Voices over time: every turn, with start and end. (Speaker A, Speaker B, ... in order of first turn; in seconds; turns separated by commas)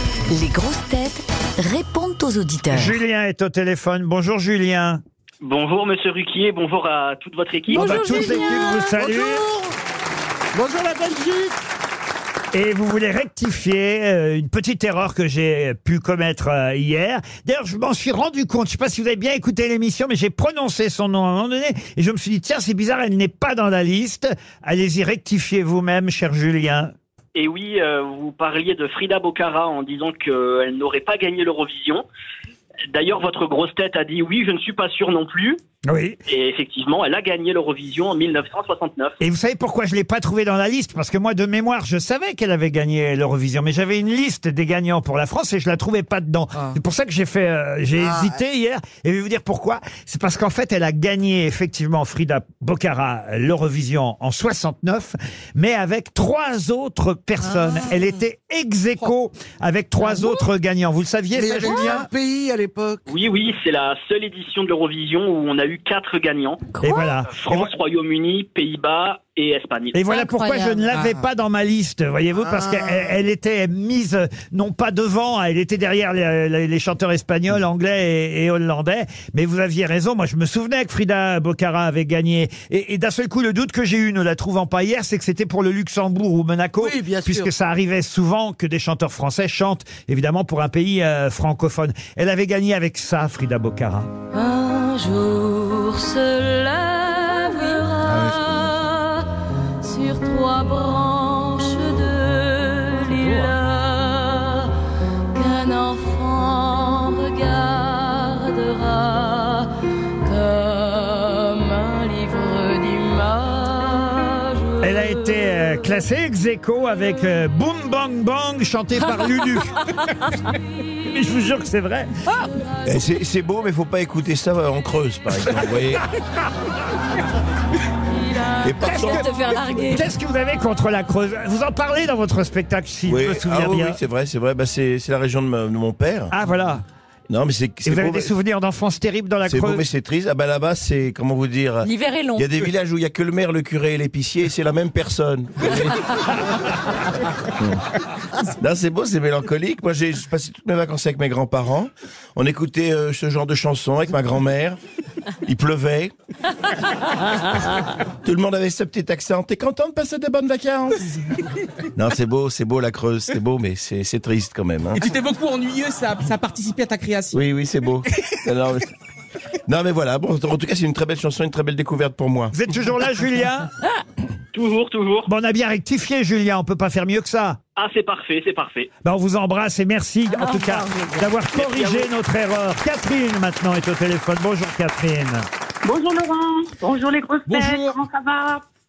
Speaker A: 0.3-3.0, Speaker B: 2.7-5.0, Speaker C: 5.4-8.4, Speaker B: 7.7-9.4, Speaker D: 7.7-9.0, Speaker E: 8.0-9.8, Speaker E: 10.5-11.6, Speaker B: 12.5-26.9, Speaker C: 27.3-32.0, Speaker C: 32.9-35.6, Speaker B: 35.9-36.2, Speaker C: 36.3-39.1, Speaker B: 39.2-62.1, Speaker E: 47.9-48.4, Speaker E: 57.6-58.1, Speaker E: 61.3-63.1, Speaker D: 61.7-62.0, Speaker C: 63.1-70.0, Speaker B: 66.8-67.7, Speaker D: 66.9-67.1, Speaker B: 69.9-94.1, Speaker D: 70.0-71.1, Speaker E: 72.3-73.2, Speaker E: 86.8-87.5, Speaker D: 94.3-99.3, Speaker D: 99.8-104.7, Speaker D: 105.3-115.9, Speaker B: 114.8-120.0, Speaker D: 119.3-119.7, Speaker B: 121.0-122.2, Speaker F: 122.8-126.0, Speaker D: 128.1-130.1, Speaker F: 128.6-129.2, Speaker B: 128.8-134.0, Speaker F: 133.1-136.3, Speaker B: 136.3-136.8, Speaker F: 137.3-138.3, Speaker B: 137.8-139.8, Speaker F: 139.4-146.1, Speaker D: 141.8-142.5, Speaker F: 148.5-154.8, Speaker F: 155.4-156.1, Speaker F: 158.2-161.0, Speaker F: 161.9-165.2, Speaker G: 165.0-167.4, Speaker F: 167.3-168.9, Speaker F: 169.7-172.5, Speaker B: 172.5-173.7, Speaker C: 174.5-175.3, Speaker B: 175.2-177.6, Speaker C: 177.8-178.9, Speaker B: 179.0-185.4, Speaker D: 180.3-181.2, Speaker C: 181.5-182.1, Speaker H: 185.8-188.6, Speaker G: 187.5-187.8